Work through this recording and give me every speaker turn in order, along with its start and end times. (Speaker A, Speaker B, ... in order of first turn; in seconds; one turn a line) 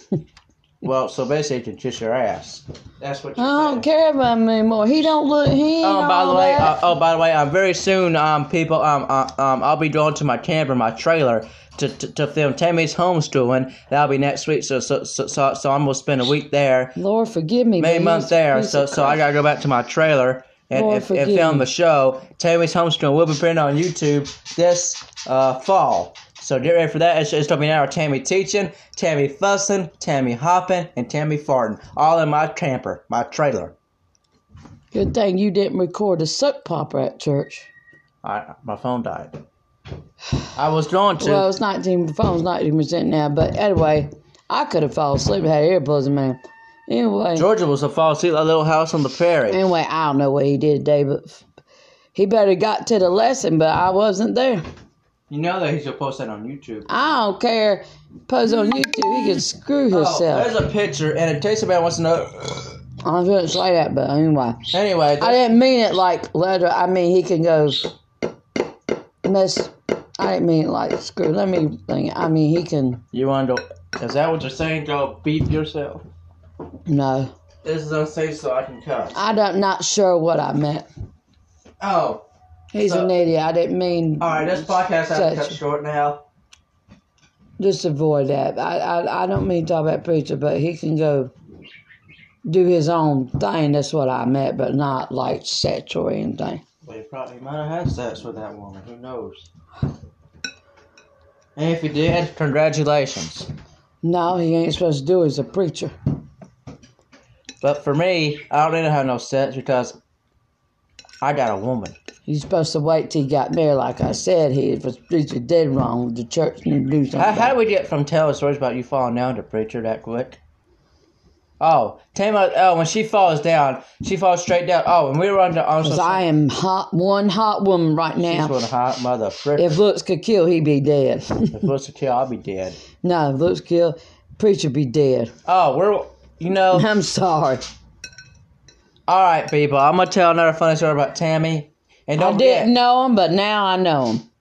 Speaker A: 0.8-3.9
Speaker B: 3.4-6.8
Speaker A: 5.8-17.0
Speaker B: 17.0-19.2
Speaker A: 17.8-33.7
Speaker B: 20.7-21.7
Speaker B: 34.9-37.7
Speaker A: 38.2-39.4
Speaker A: 40.5-41.5
Speaker B: 41.2-47.5
Speaker A: 47.4-49.6
Speaker B: 49.5-51.4
Speaker B: 52.1-54.6
Speaker A: 55.3-56.9
Speaker B: 56.9-60.5
Speaker A: 59.9-62.7
Speaker B: 63.0-64.6
Speaker A: 64.7-65.4
Speaker B: 65.2-67.9
Speaker B: 69.2-73.0
Speaker A: 73.1-76.0
Speaker B: 76.9-77.3
Speaker A: 77.6-79.2
Speaker B: 79.1-80.9
Speaker A: 81.8-82.2
Speaker B: 82.7-85.6
Speaker A: 82.8-83.1
Speaker A: 84.2-86.2
Speaker B: 87.6-91.3
Speaker B: 92.5-96.6
Speaker A: 96.8-99.5
Speaker A: 101.6-103.5
Speaker B: 104.0-105.9
Speaker A: 107.6-110.0
Speaker A: 111.2-112.0
Speaker B: 112.3-117.5
Speaker A: 117.2-120.4
Speaker A: 121.6-126.2
Speaker B: 125.8-128.6
Speaker A: 128.2-129.8
Speaker B: 129.6-131.7
Speaker A: 131.5-132.8
Speaker B: 133.0-135.3
Speaker A: 135.5-136.9
Speaker B: 136.7-137.6
Speaker A: 139.1-142.7
Speaker B: 142.2-144.2